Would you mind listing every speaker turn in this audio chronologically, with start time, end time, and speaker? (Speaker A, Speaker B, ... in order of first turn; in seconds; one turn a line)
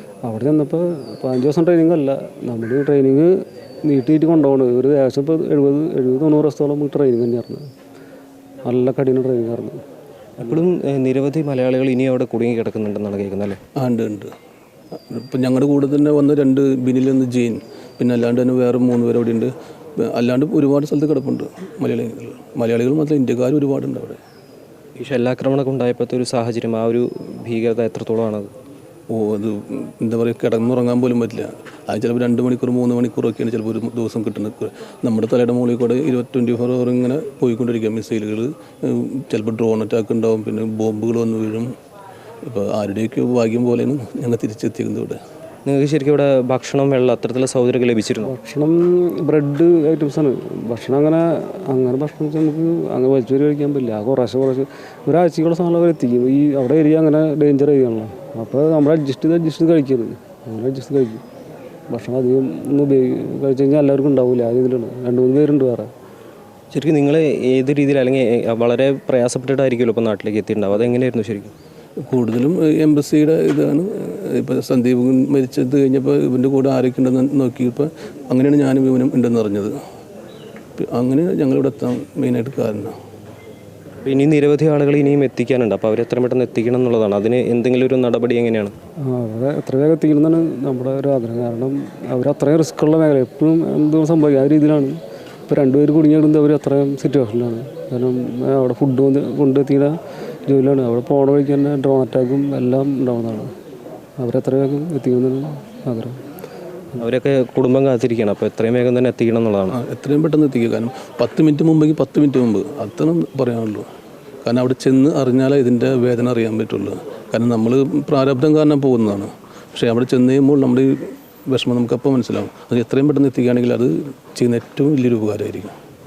Speaker A: 0.2-7.7
Speaker A: 8.6-9.8
Speaker B: 10.4-13.6
Speaker C: 13.8-14.3
Speaker C: 15.1-24.2
Speaker B: 25.0-28.5
Speaker C: 29.1-41.7
Speaker C: 42.4-45.2
Speaker B: 45.6-48.3
Speaker A: 48.2-61.2
Speaker A: 61.9-65.9
Speaker B: 66.7-71.5
Speaker C: 72.0-79.8
Speaker C: 80.8-82.9
Speaker B: 84.0-88.7
Speaker A: 89.1-95.0
Speaker A: 95.5-103.5
Speaker A: 104.2-106.2
Speaker B: 107.0-109.8
Speaker C: 109.7-113.9
Speaker C: 114.4-125.7